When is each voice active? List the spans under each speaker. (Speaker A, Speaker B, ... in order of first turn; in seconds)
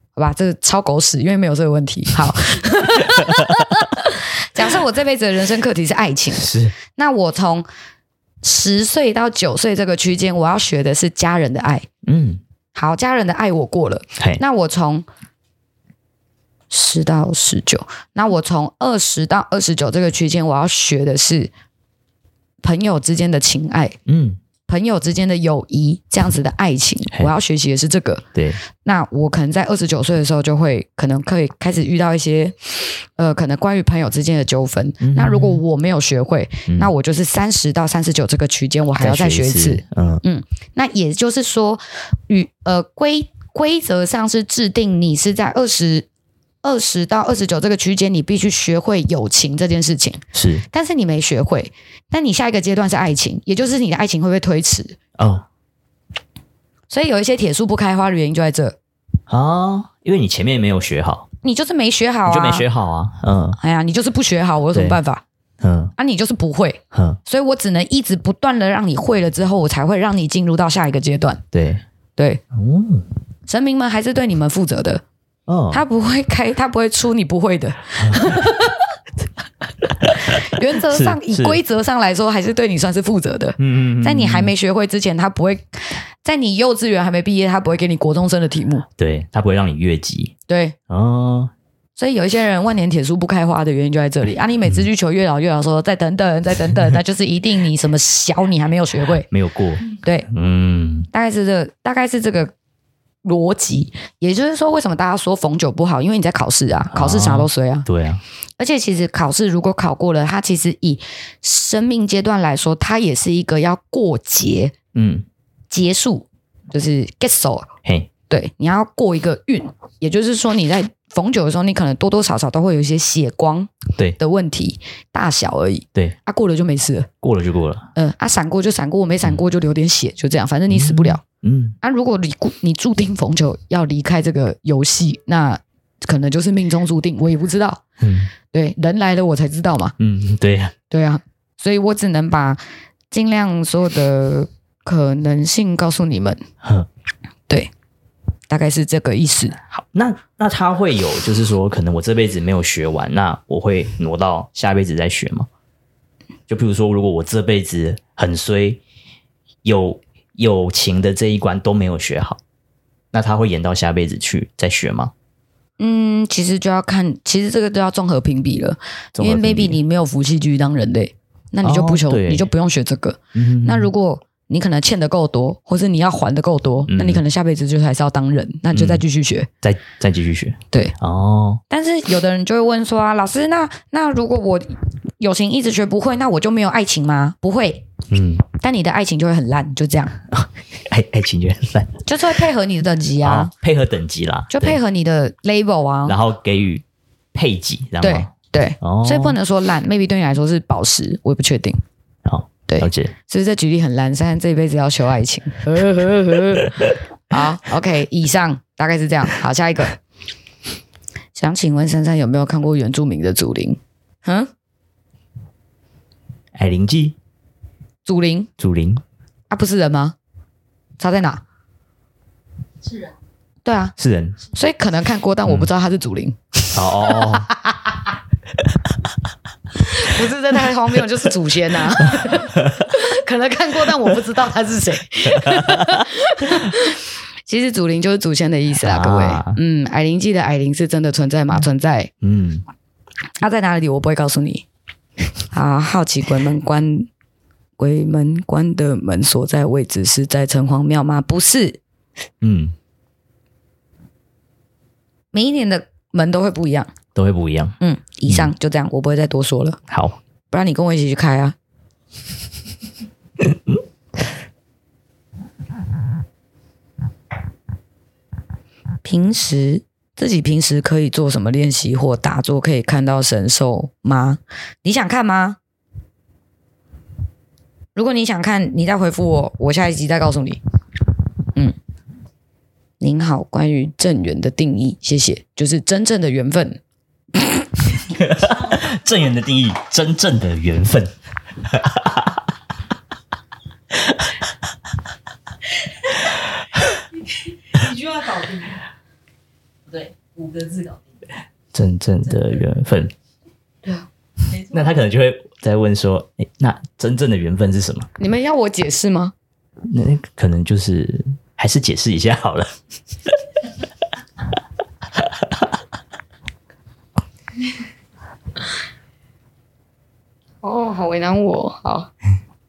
Speaker A: 0.1-7.7, 8.4-11.9, 12.7-15.1, 16.7-21.5, 22.6-24.0, 24.7-28.2, 28.8-46.0, 46.6-55.0, 56.9-58.8, 61.4-62.7, 63.6-65.2, 66.0-71.4, 73.5-75.0, 75.7-78.9, 80.1-88.8, 90.5-90.7, 92.0-99.3, 99.9-100.3, 101.1-102.5, 103.2-107.9, 108.6-114.7, 115.7-117.7, 118.3-127.1, 127.9-131.2, 131.8-137.8, 138.5-139.9, 140.9-142.6, 143.1-146.4, 148.5-149.6, 165.8-179.5, 181.7-187.8, 188.5-190.2, 192.1-193.5, 194.5-196.2, 198.0-201.8, 202.7-210.0, 211.3-214.5, 218.0-218.5, 219.5-220.2, 221.0-221.4, 223.6-223.9, 224.5-228.1, 229.8-242.1, 243.4-244.6, 245.5-247.1, 247.8-251.8, 255.3-256.9, 257.8-259.8, 260.5-261.5, 269.0-275.6, 277.9-280.6, 283.0-286.8, 287.3-287.7, 308.2-309.3, 320.6-322.1
Speaker B: 3.0-3.8, 6.3-6.7, 12.0-12.4, 24.1-24.4, 28.3-28.6, 35.0-35.6, 39.0-40.2, 50.3-50.6, 55.2-55.4, 59.3-61.3, 62.2-63.6, 64.7-65.0, 65.6-65.9, 66.9-67.2, 71.5-71.8, 72.5-73.1, 75.5-75.8, 78.0-78.4, 80.0-81.6, 83.6-84.5, 89.0-90.3, 90.9-91.5, 99.3-101.1, 106.9-108.2, 114.9-115.2, 127.2-127.9, 130.7-131.8, 138.0-138.3, 140.0-140.7, 146.6-146.9, 149.7-155.5, 156.5-158.8, 159.6-162.4, 163.1-165.1, 169.1-169.8, 171.6-172.5, 173.3-173.9, 176.9-177.2, 178.7-179.0, 179.6-181.6, 188.1-188.4, 190.3-192.0, 193.2-194.8, 196.1-196.8, 197.3-198.3, 198.8-199.4, 202.2-203.1, 216.5-217.2, 218.6-219.0, 224.0-224.4, 226.7-227.5, 232.1-233.0, 235.2-236.7, 238.8-239.6, 242.2-242.6, 252.4-252.7, 257.1-257.8, 259.9-260.2, 288.1-292.4, 301.7-303.1, 304.7-308.1, 309.9-312.7, 315.1-315.6
Speaker C: 297.2-298.8, 299.9-301.2, 304.5-304.9